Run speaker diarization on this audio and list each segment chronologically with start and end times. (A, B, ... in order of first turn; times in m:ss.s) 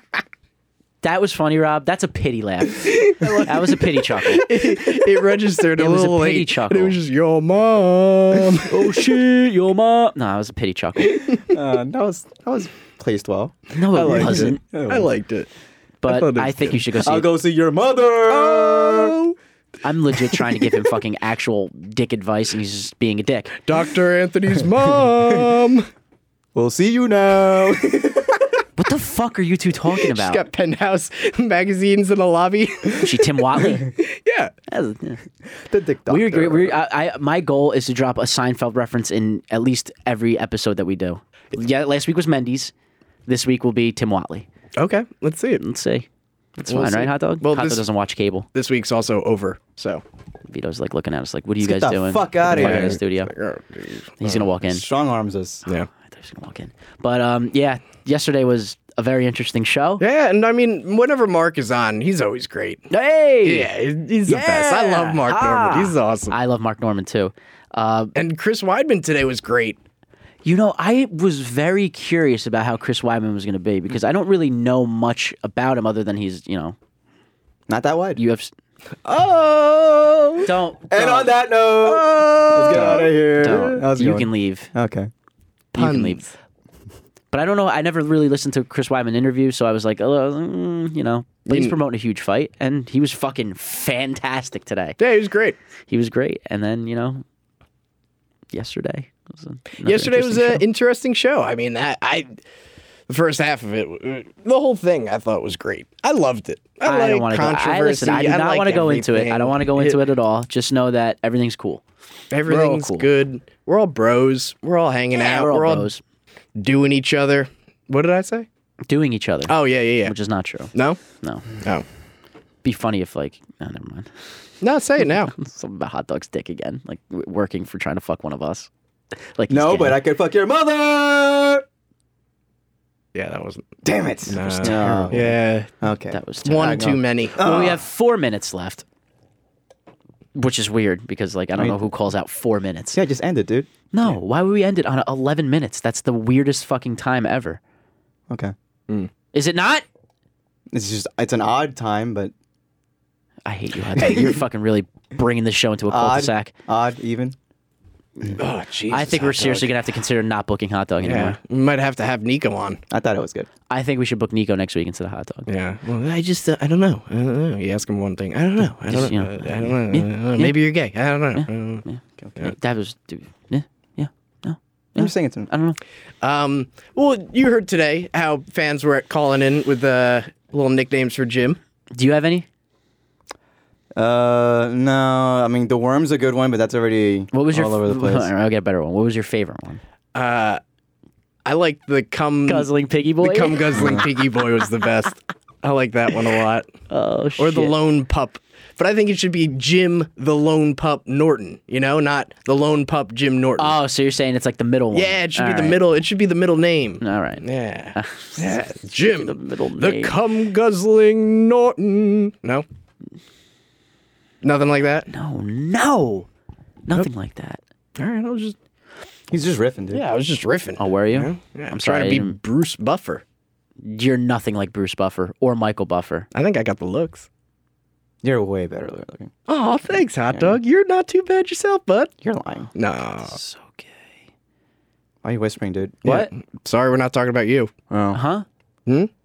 0:01.0-0:04.5 A
0:02.8-0:08.9 B
0:05.8-0:07.0 A
0:08.7-0:11.2 A
0:11.0-0:11.6 B
0:11.5-0:15.1 C
0:13.7-0:14.6 A
0:13.9-0:15.5 B
0:16.0-0:17.3 A
0:16.1-0:16.8 B
0:17.0-0:19.2 C
0:18.3-0:19.4 B
0:19.8-0:23.6 A
0:20.1-0:20.8 B
0:23.7-0:25.9 B
0:26.6-0:28.4 C
0:28.8-0:30.4 A
0:29.9-0:34.5 B
0:33.0-0:33.9 A
0:34.7-0:35.2 A
0:35.6-0:36.8 C
0:36.1-0:42.7 A
0:43.3-0:44.5 A
0:44.8-0:45.6 B
0:45.6-0:46.1 A
0:46.6-0:48.5 A
0:46.7-0:47.9 B
0:48.5-0:50.0 B
0:50.5-0:53.3 A
0:51.6-0:53.0 C
0:52.5-0:54.6 B
0:54.2-0:54.9 A
0:54.6-0:55.6 C
0:55.9-1:00.0 A
1:00.0-1:02.9 B
1:02.9-1:03.7 A
1:03.4-1:06.4 B
1:04.3-1:08.2 A
1:08.2-1:09.8 B
1:10.4-1:16.8 A
1:17.7-1:18.2 C
1:18.2-1:18.5 A
1:19.0-1:20.5 B
1:20.4-1:21.4 A
1:20.9-1:25.1 C
1:21.9-1:23.6 B
1:22.0-1:24.7 A
1:25.7-1:26.3 A
1:25.8-1:26.3 B
1:27.3-1:35.0 A
1:31.5-1:31.8 B
1:35.0-1:35.6 B
1:35.9-1:37.2 A
1:38.5-1:40.6 A
1:39.8-1:42.3 B
1:43.1-1:50.0 B
1:46.8-1:51.8 A
1:52.3-1:55.9 B
1:52.5-1:53.1 A
1:55.1-1:56.0 A
1:56.6-1:58.5 B
1:58.9-2:01.5 A
1:59.5-2:00.1 B
2:00.7-2:01.0 B
2:02.6-2:04.1 A
2:04.6-2:05.3 B
2:05.3-2:08.7 A
2:09.4-2:10.0 A
2:09.5-2:11.6 C
2:13.1-2:13.7 B
2:13.8-2:17.8 C
2:14.3-2:15.7 B
2:14.4-2:15.4 A
2:16.1-2:16.8 A
2:16.4-2:17.5 B
2:17.4-2:18.8 A
2:20.4-2:23.0 A
2:21.6-2:21.9 C
2:22.9-2:23.7 C
2:23.9-2:27.6 A
2:29.3-2:29.8 A
2:30.7-2:32.3 C
2:33.4-2:36.5 A
2:34.0-2:34.4 B
2:35.9-2:37.4 C
2:38.2-2:41.4 A
2:38.4-2:39.8 B
2:41.0-2:42.8 B
2:42.9-2:43.5 C
2:43.7-2:45.5 A
2:45.5-2:51.9 B
2:48.9-2:50.6 A
2:51.4-2:55.8 A
2:55.0-2:55.5 C
2:56.2-3:01.6 B
3:01.9-3:02.5 A
3:04.0-3:08.3 C
3:07.3-3:09.8 A
3:10.2-3:10.6 B
3:11.4-3:16.7 B
3:12.5-3:14.1 A
3:13.7-3:14.1 C
3:16.9-3:17.8 A
3:17.4-3:23.8 B
3:23.6-3:25.8 A
3:24.9-3:32.6 B
3:27.0-3:27.4 A
3:27.9-3:30.2 A
3:34.4-3:35.1 B
3:35.1-3:36.3 A
3:36.9-3:37.6 A
3:38.0-3:38.6 B
3:39.3-3:40.0 C
3:39.9-3:43.2 B
3:40.8-3:42.4 A
3:43.8-3:46.3 A
3:46.3-3:47.3 B
3:48.2-3:49.3 C
3:49.5-3:52.1 B
3:49.9-3:50.6 C
3:52.2-3:52.7 C
3:52.8-3:53.4 B
3:53.2-3:54.0 A
3:55.2-3:56.0 C
3:56.0-3:57.7 B
3:56.0-3:56.3 A
3:57.9-3:58.2 C
3:58.1-3:58.5 A